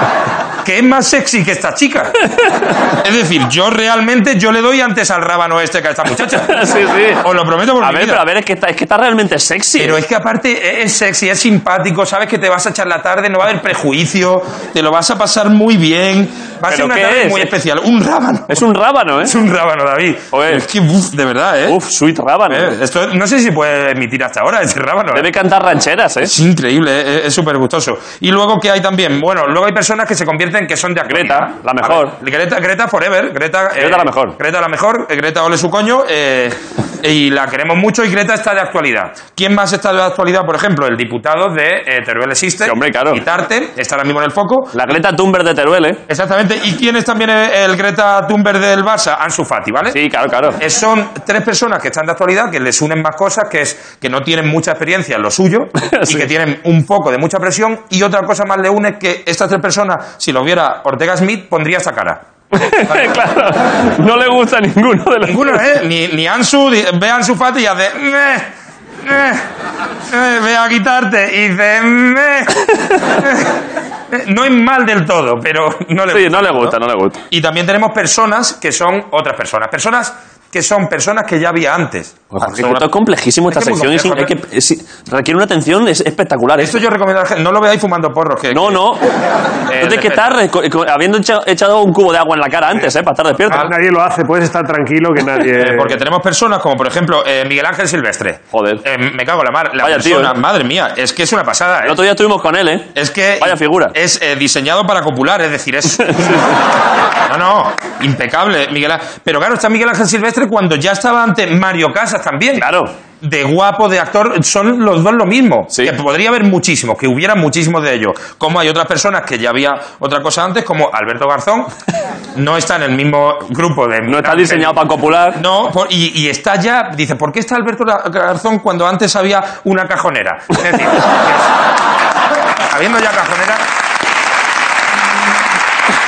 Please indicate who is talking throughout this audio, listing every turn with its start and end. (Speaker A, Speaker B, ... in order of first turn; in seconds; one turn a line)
Speaker A: 0.6-2.2
Speaker A: 3.0-6.6
Speaker B: 6.3-7.2
Speaker A: 7.2-8.2
Speaker B: 7.8-10.0
Speaker A: 9.8-18.6
Speaker B: 16.7-17.5
Speaker B: 18.5-19.3
Speaker A: 19.2-21.8
Speaker B: 20.3-20.6
Speaker B: 21.7-22.8
Speaker A: 22.5-25.3
Speaker B: 25.1-26.3
Speaker A: 26.2-44.7
Speaker B: 31.1-32.1
Speaker B: 33.8-34.4
Speaker B: 42.6-43.2
Speaker B: 44.7-46.0
Speaker A: 46.1-50.0
Speaker B: 49.9-50.6
Speaker A: 50.6-62.2
Speaker B: 55.8-56.3
Speaker B: 62.5-65.6
Speaker A: 65.2-68.5
Speaker A: 69.0-69.4
Speaker A: 70.1-73.5
Speaker A: 74.1-76.8
Speaker B: 76.1-77.2
Speaker A: 77.3-82.9
Speaker B: 82.3-86.8
Speaker A: 83.5-84.3
Speaker A: 86.6-88.8
Speaker B: 88.5-89.0
Speaker A: 89.7-90.2
Speaker B: 89.7-93.7
Speaker C: 93.6-96.0
Speaker A: 95.5-102.0
Speaker B: 98.5-98.8
Speaker B: 99.8-100.3
Speaker B: 101.8-102.9
Speaker A: 102.9-106.4
Speaker B: 103.4-103.9
Speaker B: 106.0-106.6
Speaker A: 107.3-112.7
Speaker B: 112.5-112.9
Speaker A: 113.2-121.7
Speaker A: 122.3-124.8
Speaker B: 124.1-125.4
Speaker A: 125.3-131.5
Speaker A: 132.7-133.6